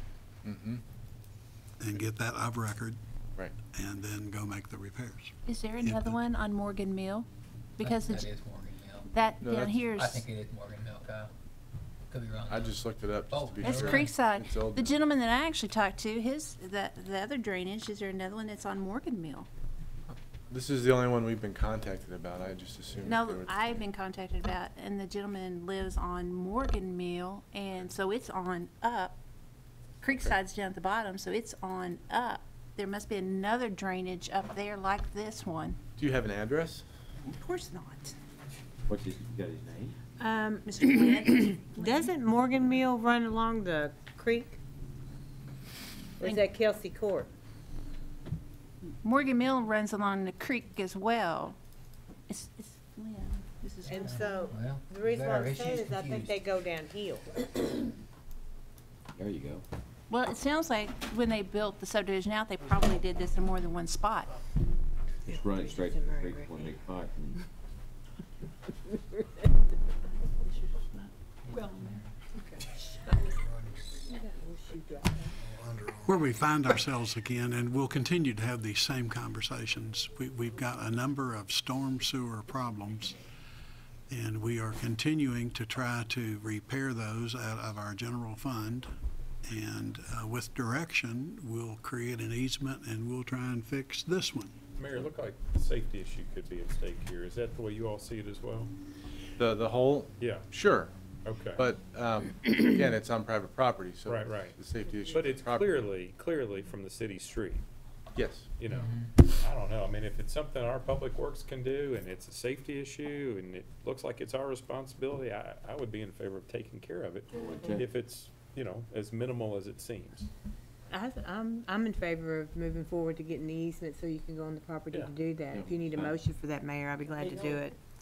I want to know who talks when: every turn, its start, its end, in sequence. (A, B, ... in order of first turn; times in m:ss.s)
0:00.4-0:00.8 A
0:01.8-0:03.0 B
0:03.7-0:06.2 B
0:05.5-0:08.3 C
0:07.8-0:09.1 D
0:09.1-0:10.2 C
0:09.4-0:09.9 A
0:10.0-0:11.3 D
0:12.1-0:14.1 D
0:12.5-0:15.0 A
0:13.6-0:19.5 C
0:20.1-0:23.9 A
0:23.0-0:29.2 C
0:30.0-0:35.8 C
0:30.0-0:30.4 A
0:36.0-0:36.9 A
0:37.3-0:38.2 C
0:38.9-0:40.0 E
0:40.2-0:40.8 F
0:40.6-0:42.1 C
0:41.7-0:44.6 F
0:46.2-0:47.3 F
0:48.9-0:51.6 C
0:52.3-0:54.5 C
0:53.9-0:57.3 F
0:54.0-0:56.4 D
0:59.2-0:59.6 E
1:00.1-1:04.3 C
1:05.3-1:07.4 E
1:05.3-1:06.7 F
1:10.3-1:11.1 C
1:11.6-1:12.1 D
1:14.1-1:15.3 F
1:15.6-1:23.2 B
1:24.1-1:28.9 B
1:29.5-1:34.6 B
1:34.8-1:38.7 G
1:39.4-1:40.9 A
1:40.2-1:40.5 G
1:41.2-1:41.6 G
1:41.6-1:45.9 A
1:44.1-1:44.6 G
1:45.1-1:47.6 G
1:48.2-1:48.5 A
1:48.6-2:00.3 G
1:48.7-1:49.1 D
1:57.4-1:57.8 E
2:00.9-2:07.8 F